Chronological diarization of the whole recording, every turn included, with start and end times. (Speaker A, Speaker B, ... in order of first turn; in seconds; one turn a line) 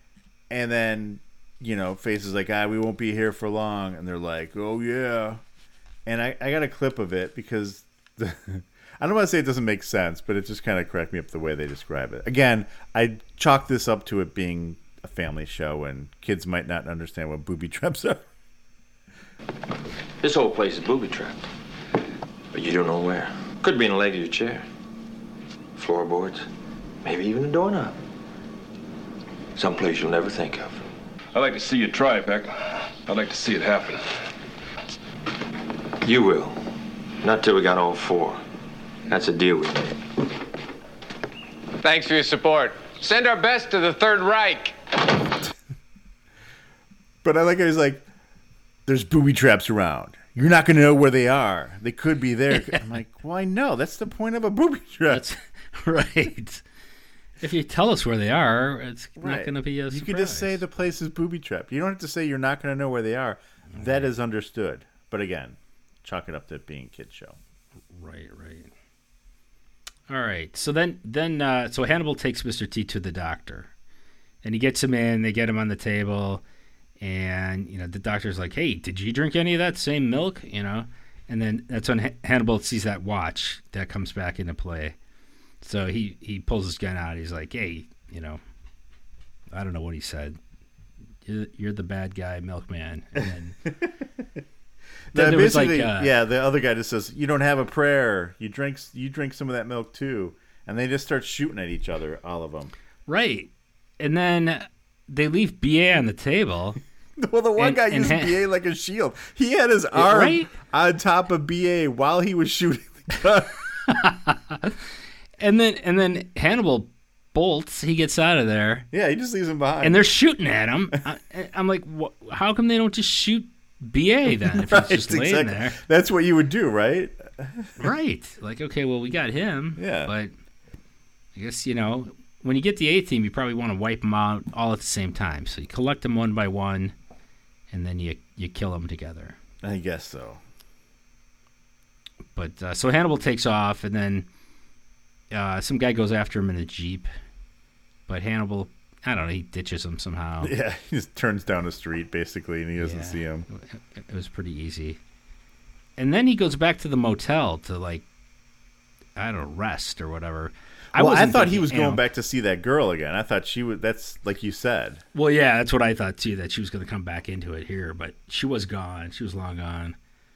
Speaker A: 0.5-5.4
Speaker A: 6.1-18.3
Speaker B: 20.2-21.5
Speaker B: 22.5-24.7
Speaker B: 25.8-26.5
Speaker B: 27.0-28.0
Speaker B: 29.6-30.9
Speaker C: 31.3-34.1
Speaker B: 36.0-36.7
Speaker B: 37.2-38.4
Speaker B: 39.1-40.0
Speaker D: 41.8-44.8
Speaker A: 47.2-48.0
Speaker A: 48.9-55.2
Speaker E: 52.5-53.0
Speaker E: 55.1-56.6
Speaker E: 57.4-60.6
Speaker A: 59.2-67.4
Speaker E: 63.8-64.0
Speaker E: 67.9-68.7
Speaker E: 70.1-73.7
Speaker E: 74.4-76.4
Speaker E: 77.0-85.0
Speaker E: 85.6-88.4
Speaker E: 89.5-90.4
Speaker E: 91.2-93.6
Speaker A: 95.1-102.7
Speaker E: 95.1-96.1
Speaker E: 103.1-106.8
Speaker A: 107.2-113.5
Speaker E: 107.6-108.4
Speaker E: 109.9-110.5
Speaker E: 113.9-114.8
Speaker E: 115.4-118.9
Speaker A: 118.9-120.1
Speaker E: 119.8-125.8
Speaker A: 124.4-127.9
Speaker E: 127.8-130.3
Speaker A: 129.8-130.1
Speaker E: 131.4-136.9
Speaker E: 137.7-139.4
Speaker A: 139.6-140.4
Speaker E: 142.3-144.3
Speaker E: 145.3-147.1
Speaker E: 148.1-150.5
Speaker A: 150.4-153.5
Speaker E: 152.8-155.0
Speaker E: 156.0-158.0
Speaker E: 159.2-162.0
Speaker A: 160.9-165.0
Speaker E: 165.1-170.0